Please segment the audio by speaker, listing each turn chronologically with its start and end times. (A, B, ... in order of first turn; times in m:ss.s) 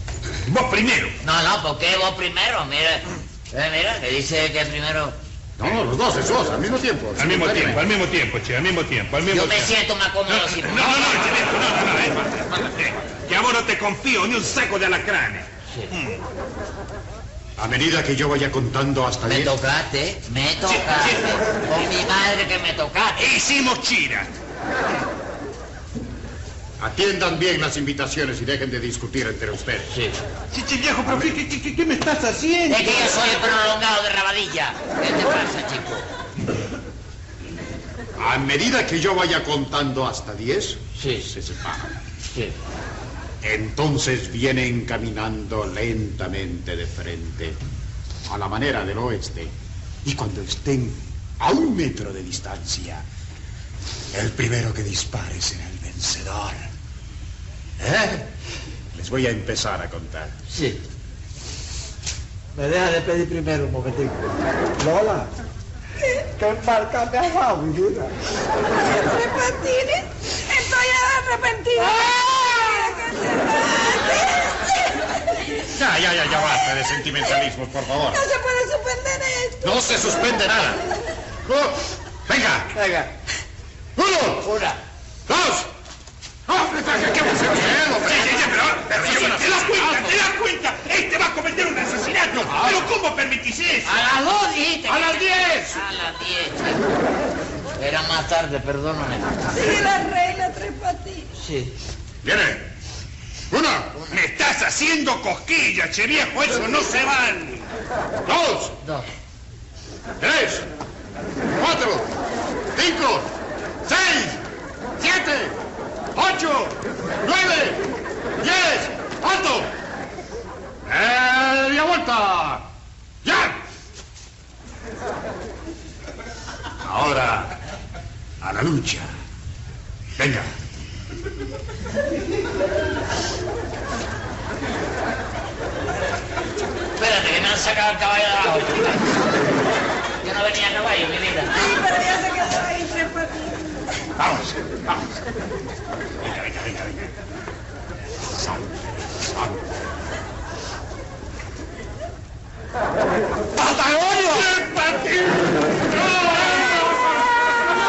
0:00.4-0:01.2 A
0:01.2-0:05.2 B
0:05.6-0:07.8 C
0:07.2-0:09.7 A
0:09.3-0:11.2 B
0:10.3-0:16.2 A
0:17.6-0:19.6 C
0:19.2-0:23.3 B
0:20.6-0:21.4 A
0:23.2-0:24.3 A
0:26.8-0:29.9 C
0:29.9-0:30.2 B
0:30.5-0:33.2 A
0:32.7-0:36.0 B
0:38.2-0:42.0 C
0:41.0-0:41.3 B
0:43.4-0:47.6 C
0:48.2-0:49.5 C
0:50.0-0:53.0 C
0:54.1-0:56.7 C
0:57.8-0:58.2 C
0:58.9-1:00.3 C
1:00.5-1:00.8 B
1:02.6-1:04.2 D
1:04.8-1:05.3 D
1:06.3-1:08.2 D
1:08.7-1:15.5 E
1:11.8-1:12.8 D
1:15.6-1:18.2 C
1:18.1-1:19.9 E
1:19.6-1:20.8 C
1:21.4-1:22.7 C
1:24.0-1:24.6 C
1:24.4-1:24.8 B
1:25.3-1:25.7 C
1:26.5-1:30.2 C
1:28.0-1:34.0 A
1:32.4-1:32.9 C
1:33.8-1:36.9 B
1:34.8-1:35.8 C
1:37.8-1:39.5 B
1:39.5-1:41.3 E
1:41.4-1:41.7 B
1:42.2-1:42.7 C
1:43.5-1:43.9 C
1:44.1-1:47.6 A
1:48.2-1:48.8 C
1:48.8-1:49.1 B
1:50.2-1:50.7 C
1:51.5-1:52.1 C
1:52.7-1:53.3 C
1:53.8-1:54.4 C
1:55.0-1:55.6 C
1:56.1-1:57.8 C
1:58.4-1:59.7 C
2:00.8-2:02.6 C
2:03.2-2:03.6 C
2:06.8-2:07.5 C
2:08.4-2:09.2 C
2:10.2-2:10.5 C
2:17.0-2:19.2 B
2:20.2-2:21.5 B
2:21.5-2:23.7 E
2:24.2-2:25.0 C
2:26.2-2:27.1 C
2:28.3-2:29.7 C
2:33.5-2:37.2 C